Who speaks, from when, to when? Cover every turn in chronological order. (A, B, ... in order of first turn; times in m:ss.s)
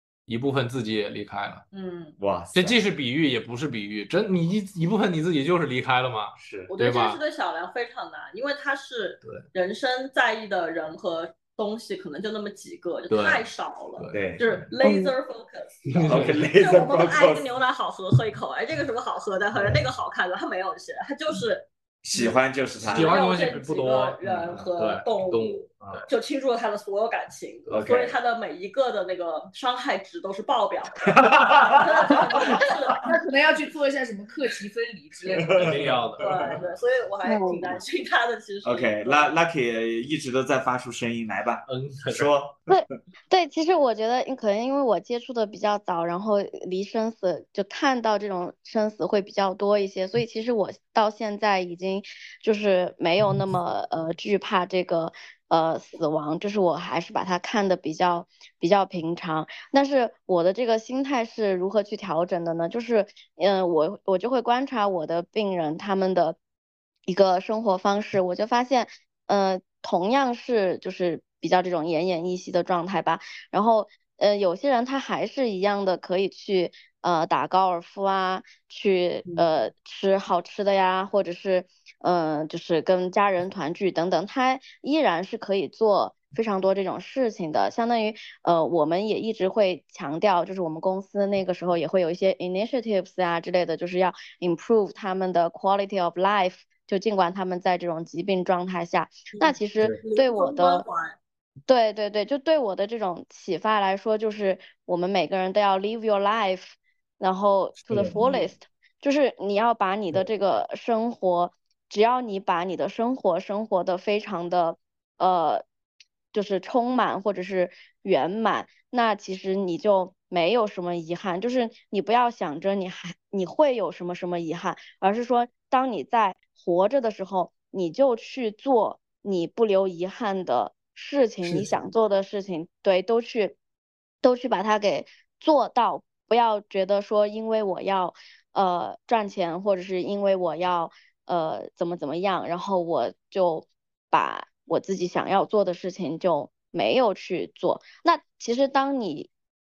0:00.3-0:01.6 A
0:01.7-0:02.2 B
0:02.2-0:02.8 C
0:02.5-0:07.2 A
0:06.4-0:06.7 C
0:06.7-0:21.7 B
0:13.1-0:13.4 A
0:14.0-0:14.4 A
0:14.1-0:14.4 C
0:15.9-0:16.5 A
0:16.0-0:17.5 C
0:22.0-0:23.2 C
0:22.8-0:26.1 A
0:22.9-0:33.1 B
0:27.7-0:28.2 C
0:31.2-0:31.8 C
0:31.2-0:31.8 A
0:32.6-0:36.1 D
0:35.3-0:35.9 C
0:35.6-0:36.6 A
0:36.2-0:39.3 B
0:37.2-0:37.7 E
0:38.6-0:42.8 C
0:41.7-0:42.3 A
0:42.7-1:06.4 E
1:07.1-1:40.9 E
1:39.3-1:41.2 B
1:41.7-1:55.6 E
1:56.3-2:13.6 E
2:14.2-2:29.3 E